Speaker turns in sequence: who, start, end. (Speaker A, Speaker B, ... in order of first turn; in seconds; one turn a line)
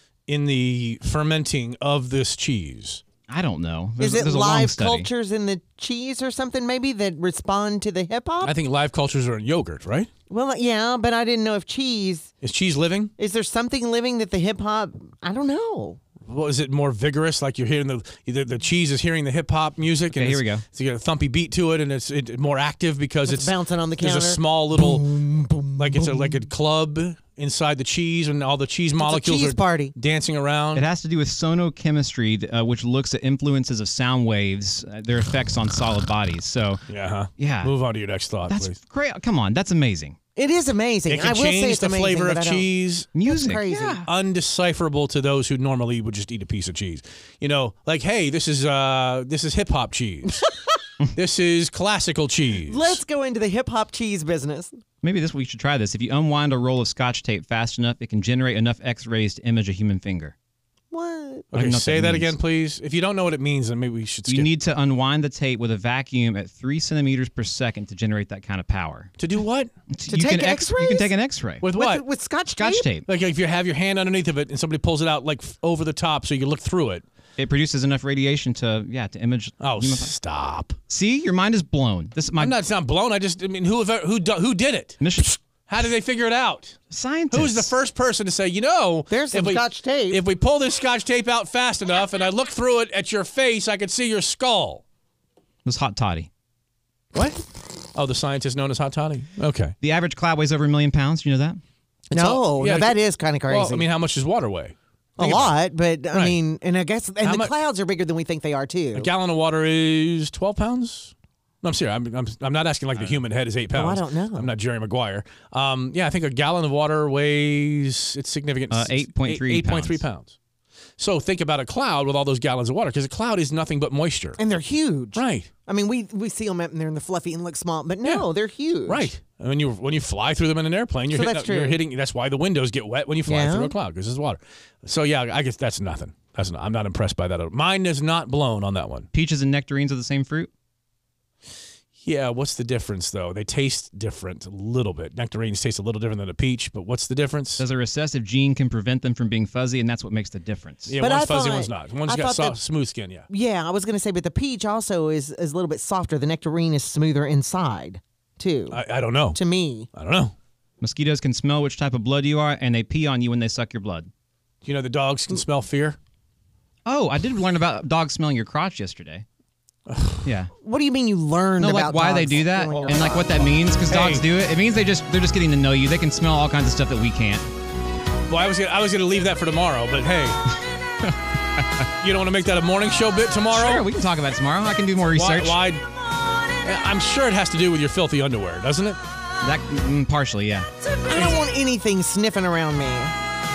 Speaker A: 0.3-3.0
Speaker B: 3.3-5.1
Speaker C: 4.0-8.6
Speaker A: 8.4-10.1
Speaker C: 10.3-12.3
Speaker A: 12.4-13.1
Speaker C: 13.2-16.0
Speaker A: 16.3-25.1
Speaker B: 20.1-20.6
Speaker C: 23.2-26.3
Speaker A: 25.8-30.9
Speaker C: 29.0-29.9
Speaker B: 30.8-36.8
Speaker A: 36.9-38.8
Speaker B: 37.4-37.8
Speaker B: 38.5-40.1
Speaker C: 40.4-42.7
Speaker A: 41.1-43.1
Speaker B: 43.1-43.7
Speaker C: 43.2-44.1
Speaker A: 43.7-50.4
Speaker A: 51.1-53.0
Speaker C: 52.7-54.8
Speaker B: 55.0-60.3
Speaker C: 60.9-61.5
Speaker A: 61.5-64.5
Speaker B: 61.5-62.3
Speaker B: 64.3-69.1
Speaker A: 69.2-69.7
Speaker B: 69.9-71.7
Speaker C: 70.1-71.1
Speaker A: 71.6-72.0
Speaker C: 71.7-72.9
Speaker B: 72.5-73.0
Speaker A: 73.0-77.0
Speaker B: 77.4-80.1
Speaker A: 79.6-80.7
Speaker B: 80.9-82.6
Speaker A: 82.4-85.0
Speaker B: 85.0-85.4
Speaker A: 85.7-86.8
Speaker B: 86.9-87.7
Speaker A: 87.3-94.8
Speaker C: 89.1-90.2
Speaker B: 95.6-96.3
Speaker A: 97.1-97.4
Speaker A: 97.9-99.7
Speaker B: 99.8-101.6
Speaker A: 102.1-105.6
Speaker C: 102.1-103.9
Speaker C: 105.2-109.1
Speaker A: 106.1-106.4
Speaker A: 107.2-107.5
Speaker A: 108.9-120.3
Speaker C: 113.7-114.5
Speaker B: 118.7-120.0
Speaker A: 121.0-124.4
Speaker C: 124.4-129.1
Speaker A: 125.1-125.5
Speaker A: 128.8-139.1
Speaker C: 131.1-131.8
Speaker C: 133.3-133.7
Speaker B: 139.1-140.5
Speaker A: 142.0-147.6
Speaker B: 147.6-151.0
Speaker A: 150.9-153.3
Speaker C: 151.0-152.6
Speaker C: 153.3-158.8
Speaker A: 158.7-159.4
Speaker C: 159.3-159.9
Speaker A: 159.9-160.3
Speaker B: 160.8-164.1
Speaker A: 164.6-166.0
Speaker B: 166.8-169.2
Speaker A: 169.9-170.2
Speaker B: 170.2-170.5
Speaker C: 170.6-173.5
Speaker B: 171.6-177.5
Speaker A: 173.9-174.3
Speaker A: 178.3-180.4
Speaker A: 182.0-183.8
Speaker B: 183.5-185.6
Speaker A: 185.1-185.8
Speaker A: 186.6-189.0
Speaker B: 189.4-190.7
Speaker C: 191.1-193.1